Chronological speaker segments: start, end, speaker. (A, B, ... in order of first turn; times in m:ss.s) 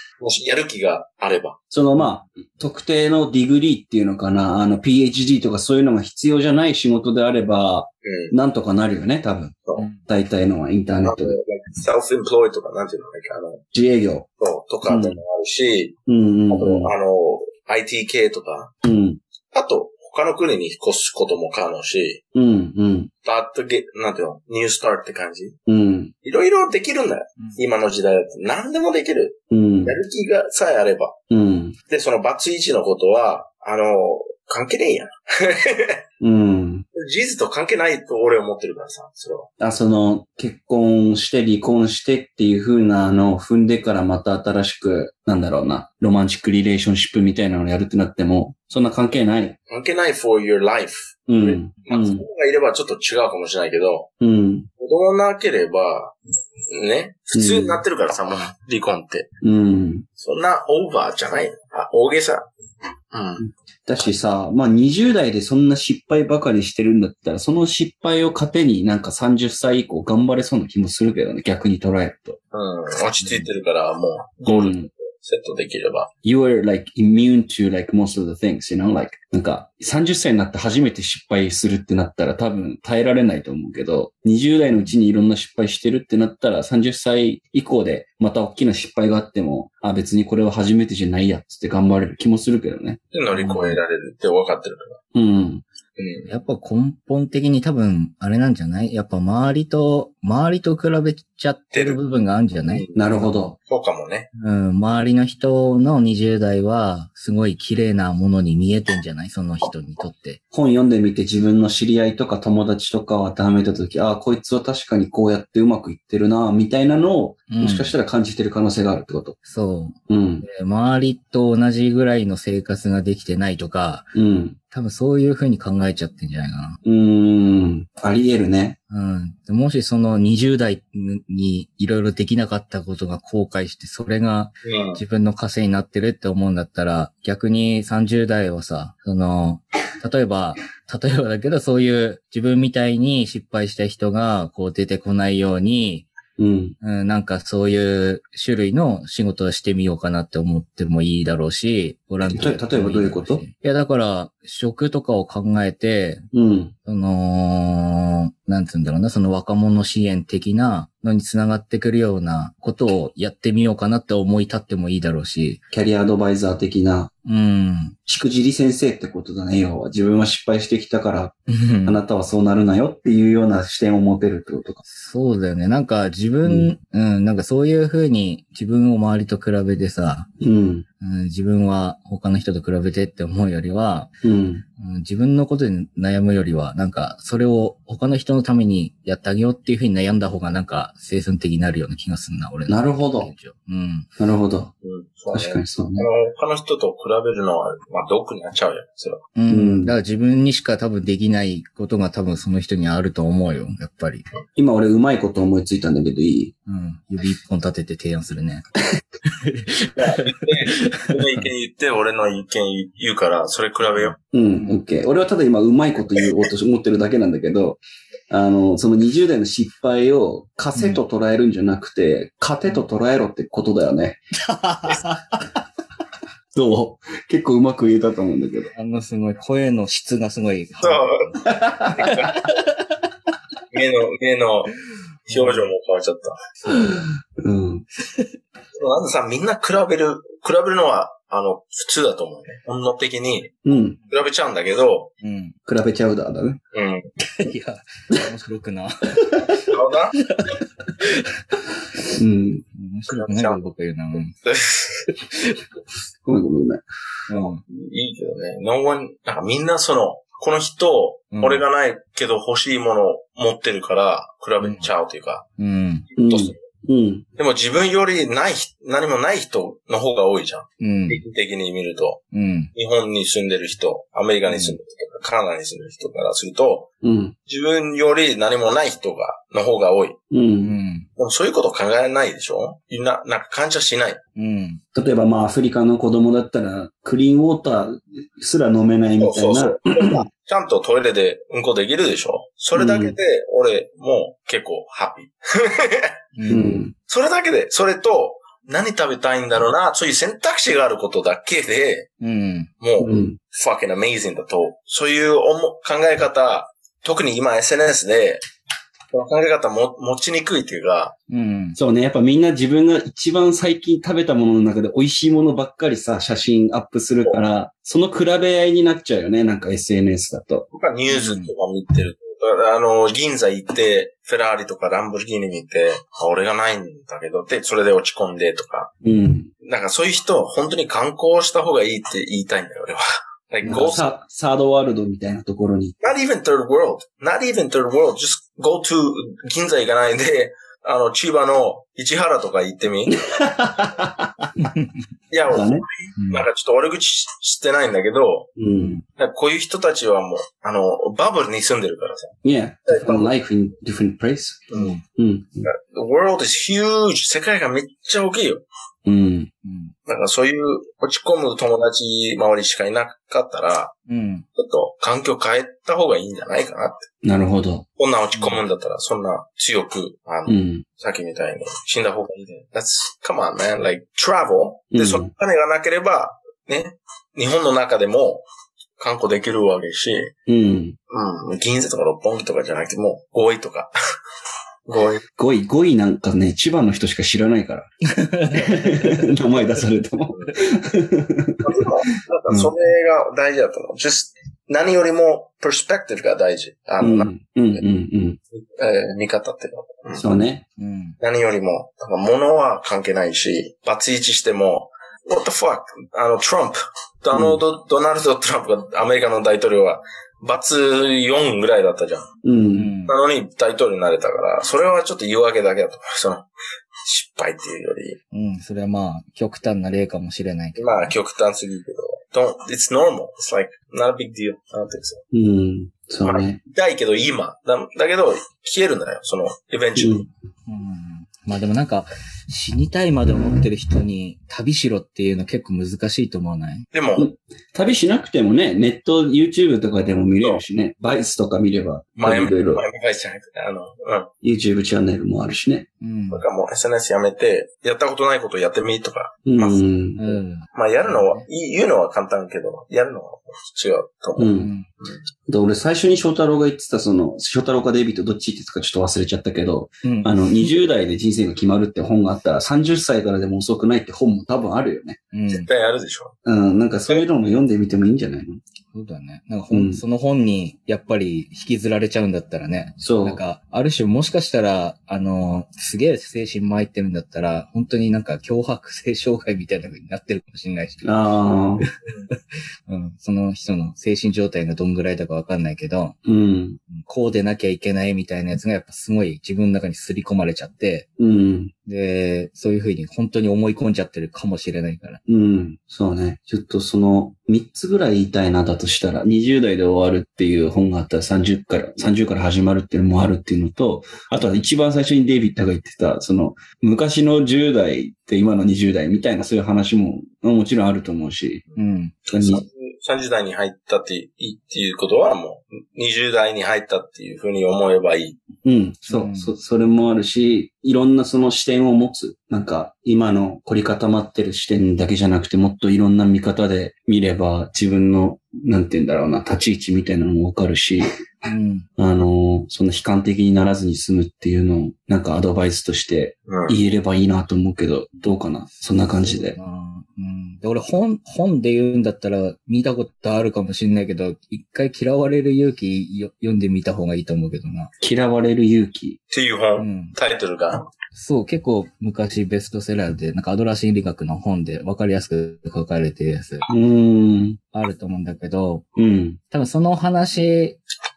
0:00.2-0:01.6 A
0:01.7-0:11.4 B
0:08.0-0:08.3 A
0:09.8-0:10.0 C
0:11.0-0:13.6 A
0:13.7-0:14.3 B
0:14.4-0:16.0 A
0:14.8-0:15.2 B
0:16.1-0:16.9 B
0:16.5-0:18.7 A
0:18.8-0:19.2 B
0:19.5-0:22.2 A
0:22.3-0:23.1 B
0:23.2-0:25.6 A
0:25.7-0:26.1 B
0:26.2-0:31.2 A
0:29.5-0:30.0 B
0:31.3-0:31.8 B
0:31.9-0:36.0 A
0:36.2-0:36.8 B
0:36.9-0:39.5 A
0:39.6-0:49.6 B
0:49.7-0:54.1 A
0:51.3-0:52.2 B
0:54.2-0:54.7 B
0:54.8-0:56.1 A
0:56.7-0:59.3 A
0:57.3-0:57.8 B
0:59.4-1:00.1 B
1:00.2-1:02.5 A
1:03.1-1:03.4 A
1:03.4-1:12.4 B
1:12.5-1:16.1 A
1:14.5-1:14.9 B
1:16.2-1:33.8 B
1:33.1-1:35.0 A
1:35.1-1:35.6 B
1:36.0-1:36.2 A
1:36.2-1:43.3 C
1:42.7-1:43.0 A
1:42.9-1:43.6 B
1:43.7-1:44.3 A
1:44.4-1:50.4 C
1:50.5-1:59.4 B
1:57.5-1:57.9 C
1:59.4-2:04.1 C
2:00.1-2:00.5 B
2:04.1-2:04.6 B
2:04.7-2:06.8 C
2:06.8-2:08.8 B
2:08.9-2:26.0 C
2:14.6-2:15.0 A
2:26.4-2:26.8 B
2:26.8-2:36.2 C
2:32.2-2:33.4 B
2:36.3-2:36.7 B
2:36.8-2:45.6 C
2:45.7-2:47.1 B
2:47.2-2:48.0 C
2:48.0-2:54.8 B
2:51.5-2:52.0 C
2:54.8-3:00.3 C
2:56.4-2:56.7 B
3:00.4-3:00.8 B
3:01.0-3:04.1 C
3:04.2-3:04.6 B
3:04.8-3:14.1 C
3:12.7-3:13.3 B
3:14.2-3:14.7 B
3:14.8-3:19.2 A
3:15.3-3:16.1 B
3:19.3-3:24.2 C
3:19.5-3:20.0 B
3:24.6-3:26.5 B
3:26.7-3:28.6 C
3:29.4-3:31.2 C
3:30.0-3:34.2 A
3:34.0-3:34.8 C
3:34.3-3:44.2 B
3:40.8-3:41.0 C
3:44.4-3:45.4 C
3:46.5-3:48.7 B
3:48.7-3:52.6 C
3:50.8-3:51.2 A
3:51.8-3:52.4 A
3:53.7-3:54.7 A
3:55.3-3:56.4 A
3:55.3-3:55.7 C
3:56.7-3:57.9 B
3:58.8-4:03.6 A
4:03.6-4:04.0 B
4:04.1-4:05.1 A
4:05.2-4:05.6 C
4:05.6-4:06.6 B
4:06.7-4:07.1 A
4:07.4-4:09.7 C
4:09.6-4:10.2 A
4:10.3-4:11.2 C
4:12.1-4:12.6 B
4:12.7-4:14.3 C
4:13.1-4:13.6 A
4:14.4-4:15.1 A
4:15.3-4:15.6 C
4:16.2-4:16.8 B
4:17.3-4:17.6 C
4:17.7-4:25.4 A
4:21.3-4:21.6 C
4:24.6-4:24.9 C
4:25.6-4:26.0 C
4:26.1-4:26.6 A
4:26.2-4:27.2 B
4:27.4-4:32.2 A
4:30.8-4:31.2 C
4:32.3-4:32.7 C
4:32.8-4:36.9 A
4:34.4-4:34.8 C
4:37.0-4:37.3 B
4:37.5-4:40.2 A
4:40.3-4:40.8 B
4:40.6-4:41.1 C
4:41.2-4:44.2 A
4:44.4-4:44.8 C
4:44.9-4:50.2 B
4:49.2-4:56.1 A
4:52.7-4:53.2 B
4:56.4-4:56.8 C
4:56.5-4:56.9 B
4:57.1-5:02.1 A
5:02.2-5:02.7 C
5:02.8-5:08.4 A
5:03.0-5:03.4 B
5:09.1-5:11.1 A
5:11.3-5:11.8 C
5:11.8-5:20.7 B
5:20.7-5:28.9 A
5:21.1-5:21.5 C
5:29.0-5:29.5 B
5:29.6-5:34.1 A
5:33.6-5:36.0 B
5:36.0-5:43.2 A
5:43.3-5:44.5 B
5:44.6-5:45.0 C
5:45.3-5:48.5 A
5:45.5-5:45.8 B
5:46.2-5:46.4 C
5:48.6-5:49.0 B
5:48.8-5:49.0 C
5:49.2-5:52.4 A
5:52.4-5:55.6 B
5:52.9-5:53.3 A
5:54.7-5:55.0 A
5:54.7-5:55.0 C
5:55.6-5:58.6 A
5:59.0-5:59.5 B
5:59.6-5:59.9 C
6:00.1-6:03.9 A
6:04.1-6:04.4 C
6:04.6-6:07.1 A
6:07.2-6:07.8 B
6:08.0-6:18.4 A
6:08.4-6:08.6 C
6:10.4-6:10.8 B
6:14.9-6:15.3 B
6:19.0-6:20.3 A
6:20.5-6:21.0 B
6:21.1-6:23.9 A
6:24.9-6:25.2 A
6:25.4-6:27.9 B
6:28.1-6:29.3 C
6:28.5-6:31.8 B
6:31.6-6:37.8 A
6:37.0-6:38.4 B
6:38.5-6:40.2 A
6:40.1-6:40.6 B
6:40.8-6:41.2 C
6:41.2-6:52.3 A
6:47.3-6:47.6 B
6:52.4-6:52.9 B
6:52.7-6:53.2 C
6:53.0-6:56.5 A
6:57.0-6:58.2 A
6:58.3-7:01.1 C
7:00.8-7:05.2 A
7:05.3-7:06.6 B
7:06.2-7:10.3 A
7:10.0-7:10.3 B
7:10.7-7:16.9 C
7:16.9-7:17.3 A
7:17.2-7:22.8 B
7:22.2-7:24.3 A
7:24.4-7:25.9 B
7:26.0-7:26.4 C
7:26.3-7:29.8 A
7:29.4-7:30.2 B
7:30.2-7:31.4 C
7:30.7-7:35.2 A
7:34.4-7:34.7 B
7:34.6-7:34.9 C
7:35.5-7:45.2 B
7:40.0-7:40.6 C
7:45.3-7:45.7 C
7:45.5-7:46.3 A
7:46.4-7:48.6 B
7:48.9-8:01.1 C
7:49.7-7:50.0 B
7:53.0-7:53.4 B
8:01.0-8:01.9 B
8:02.9-8:06.2 C
8:06.2-8:06.8 B
8:06.9-8:11.1 C
8:11.2-8:11.7 B
8:11.8-8:15.2 C
8:15.2-8:31.6 B
8:31.8-8:32.2 C
8:32.3-8:32.6 B
8:32.4-8:38.4 A
8:38.6-8:59.6 B
8:39.1-8:39.5 C
8:51.4-8:51.9 C
8:56.5-8:56.8 A
8:58.7-9:07.9 C
9:08.0-9:09.2 B
9:09.3-9:10.9 A
9:09.8-9:10.1 C
9:11.1-9:16.6 C
9:16.7-9:17.6 B
9:17.7-9:18.8 C
9:19.0-9:19.4 B
9:19.5-9:20.8 C